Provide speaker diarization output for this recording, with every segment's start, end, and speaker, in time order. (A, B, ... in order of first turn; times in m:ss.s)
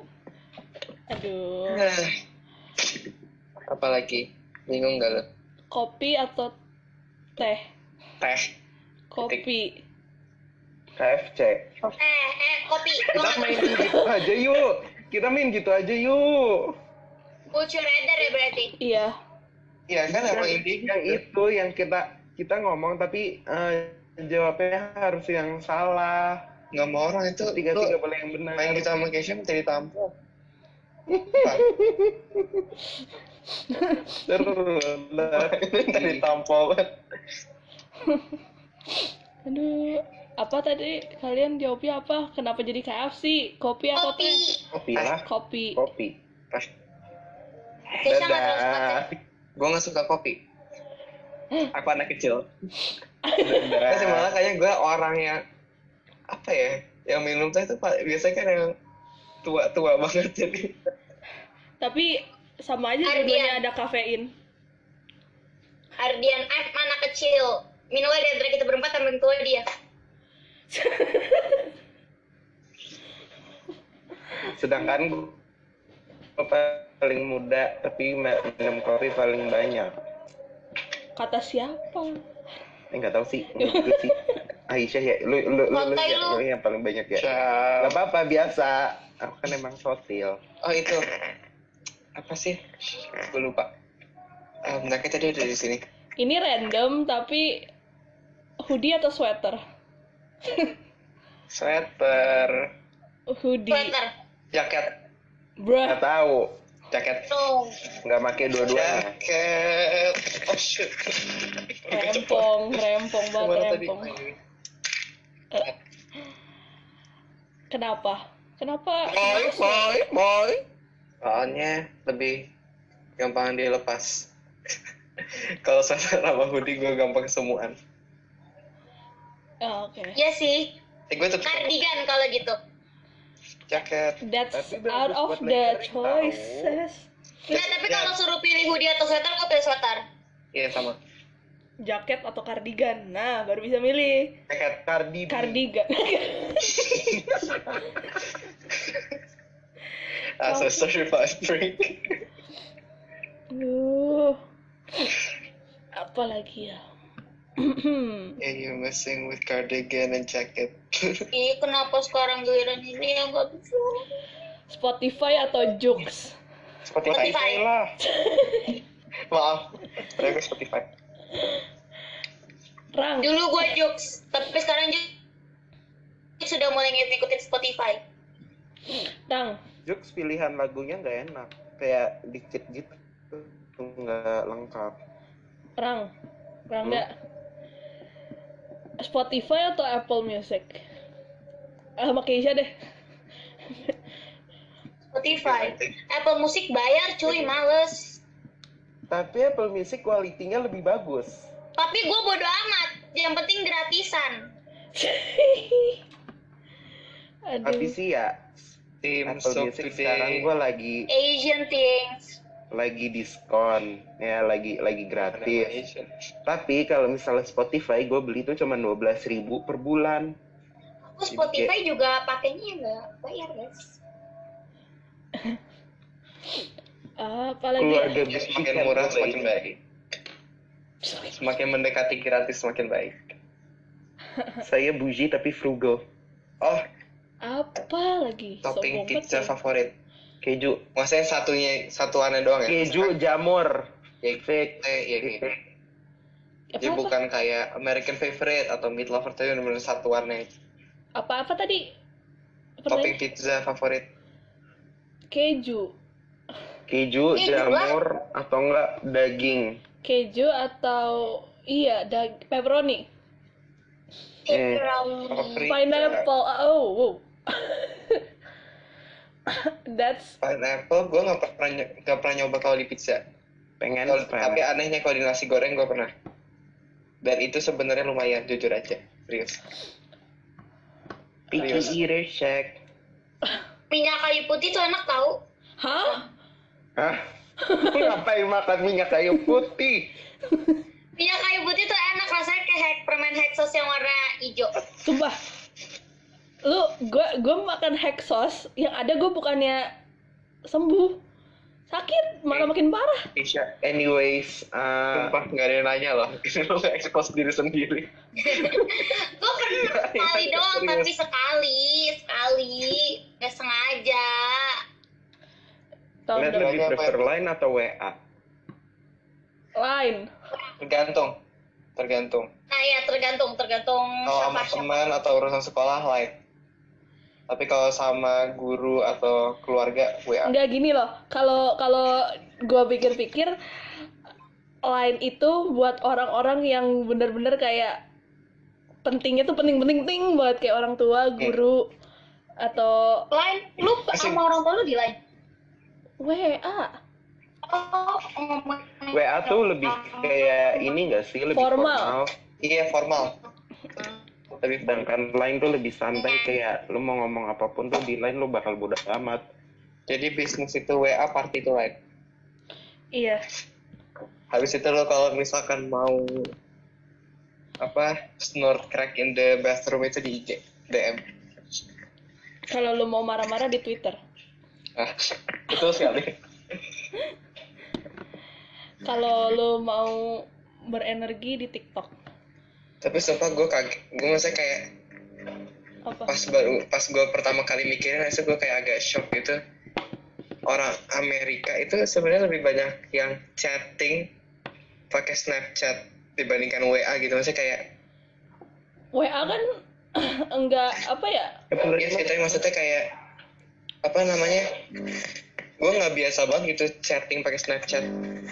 0:01.1-0:01.8 A
0:01.7-0:02.1 B
0:03.7-0:05.2 B
0:05.7-0:06.5 A
0:07.4-0:07.7 A
0:08.2-0:08.5 B
0:09.1-0:09.8 A
0:11.0-0:11.7 C
0:12.0-0:13.9 D
0:13.1-0:16.8 C
0:13.1-0:14.0 B
0:17.5-0:18.7 D
0:18.8-0:19.2 A
0:19.9-0:21.2 B
0:20.1-0:26.4 C
0:26.7-0:28.0 B
0:27.4-0:28.9 C
0:28.6-0:30.1 B
0:31.1-0:32.7 C
0:31.4-0:31.7 B
0:33.7-0:34.1 A
0:34.2-0:36.3 C
0:35.2-0:36.9 B
0:39.5-0:44.4 A
0:44.0-0:44.6 D
0:44.7-0:46.2 C
0:45.2-0:45.8 A
0:47.9-0:49.2 C
0:48.0-0:49.0 D
0:49.6-0:50.4 B
0:51.6-0:52.5 B
0:53.2-0:53.8 A
0:53.4-0:54.3 C
0:53.9-0:55.4 B
0:56.3-0:58.8 B
0:59.4-1:00.8 B
1:01.8-1:04.3 A
1:03.0-1:03.6 D
1:06.0-1:09.6 D
1:10.7-1:11.7 A
1:14.5-1:15.4 C
1:16.4-1:19.9 C
1:21.2-1:22.2 A
1:22.9-1:24.2 C
1:23.6-1:24.4 A
1:24.7-1:30.4 C
1:25.7-1:26.4 D
1:27.2-1:28.0 B
1:30.6-1:31.0 B
1:32.2-1:33.7 B
1:34.6-1:35.8 B
1:36.2-1:37.7 A
1:38.6-1:39.6 A
1:40.5-1:40.7 A
1:41.5-1:42.7 B
1:43.3-1:43.9 A
1:43.7-1:44.1 D
1:44.5-1:45.0 B
1:45.6-1:46.0 A
1:45.8-1:46.6 C
1:46.9-1:47.3 B
1:47.3-1:47.8 D
1:48.0-1:49.1 C
1:48.6-1:52.8 B
1:51.9-1:54.2 A
1:53.4-1:54.4 B
1:57.7-1:59.9 A
1:59.1-2:00.6 C
2:01.2-2:02.5 B
2:03.2-2:04.3 B
2:05.6-2:07.8 B
2:09.6-2:10.2 A
2:10.2-2:10.8 D
2:11.1-2:11.7 B
2:11.4-2:12.6 D
2:13.7-2:14.2 B
2:14.2-2:17.1 A
2:14.5-2:16.8 C
2:17.5-2:18.2 B
2:17.5-2:20.0 D
2:20.5-2:21.0 B
2:21.8-2:24.4 A
2:24.5-2:24.8 B
2:24.8-2:25.6 C
2:25.3-2:27.1 A
2:28.8-2:29.0 B
2:30.4-2:32.2 B
2:30.4-2:30.8 A
2:33.5-2:34.4 A
2:36.0-2:36.8 A
2:37.6-2:38.4 A
2:38.4-2:41.3 B
2:41.3-2:44.1 D
2:44.7-2:46.4 A
2:46.9-2:47.4 B
2:47.1-2:47.9 C
2:47.1-2:47.6 D
2:48.0-2:48.8 A
2:49.3-2:50.9 B
2:52.9-2:53.3 A
2:53.2-2:55.1 D
2:56.4-2:58.0 D
2:59.3-2:59.6 A
2:59.9-3:05.0 C
3:05.8-3:06.1 A
3:06.7-3:07.1 A
3:09.0-3:10.8 A
3:12.0-3:12.7 A
3:15.1-3:18.2 D
3:15.3-3:15.9 B
3:19.1-3:21.5 C
3:21.8-3:24.5 D
3:25.0-3:26.0 A
3:27.5-3:28.0 A
3:27.6-3:28.5 C
3:29.0-3:30.5 B
3:29.3-3:31.1 C
3:31.1-3:32.4 D
3:32.7-3:35.8 C
3:35.3-3:36.1 B
3:36.5-3:40.4 C
3:41.2-3:44.0 D
3:41.3-3:41.7 C
3:47.2-3:48.2 A
3:47.8-3:49.5 C
3:48.3-3:49.8 B
3:51.1-3:51.3 A
3:51.4-3:53.2 B
3:54.6-3:56.0 C
3:57.4-3:59.5 A
3:58.6-3:59.9 B
4:00.4-4:00.8 C
4:01.0-4:03.1 B
4:02.7-4:05.5 C
4:04.2-4:05.5 B
4:06.7-4:07.1 A
4:06.8-4:10.5 B
4:11.2-4:11.9 A
4:12.8-4:13.2 A
4:12.9-4:14.1 B
4:15.3-4:15.9 A
4:16.9-4:19.8 C
4:17.4-4:18.0 D
4:20.0-4:23.1 A
4:24.5-4:25.7 D
4:24.5-4:24.8 C
4:25.3-4:26.3 B
4:25.7-4:28.2 A
4:29.5-4:30.4 A
4:30.4-4:33.2 B
4:33.8-4:34.6 C
4:34.1-4:36.1 B
4:37.2-4:39.6 B
4:41.5-4:42.8 C
4:41.6-4:42.0 B
4:43.9-4:45.4 D
4:45.8-4:46.2 A
4:47.0-4:50.1 C
4:47.6-4:48.1 A
4:51.2-4:54.8 D
4:55.0-4:55.4 A
4:56.6-4:59.9 A
5:00.7-5:01.2 A
5:01.9-5:03.3 A
5:03.4-5:03.7 B
5:03.8-5:05.4 C
5:05.1-5:09.0 B
5:08.4-5:14.8 D
5:09.7-5:11.1 B
5:16.3-5:16.8 A
5:16.4-5:18.2 C
5:16.5-5:17.2 B
5:19.8-5:20.3 A
5:20.8-5:21.3 B
5:22.0-5:22.5 B
5:22.7-5:25.0 D
5:24.3-5:26.3 B
5:27.5-5:30.5 B
5:30.5-5:33.6 A
5:34.9-5:38.0 A
5:39.0-5:41.9 A
5:42.6-5:43.3 A
5:43.3-5:45.2 D
5:44.1-5:44.4 B
5:46.2-5:47.0 A
5:47.6-5:50.9 D
5:49.1-5:52.3 C
5:51.5-5:52.2 A
5:52.6-5:53.4 B
5:54.5-5:55.1 B
5:54.8-5:59.4 C
5:56.1-5:56.5 D
6:00.1-6:02.0 B
6:03.1-6:03.4 A
6:04.5-6:06.5 B
6:07.8-6:11.2 B
6:12.7-6:14.2 A
6:15.0-6:16.8 B
6:19.0-6:22.1 A
6:23.0-6:24.9 B
6:26.1-6:26.3 A
6:26.3-6:29.6 B
6:30.7-6:34.3 B
6:35.1-6:37.9 B
6:39.1-6:41.6 A
6:41.7-6:42.6 C
6:42.0-6:43.1 B
6:44.0-6:44.8 B
6:45.8-6:48.2 B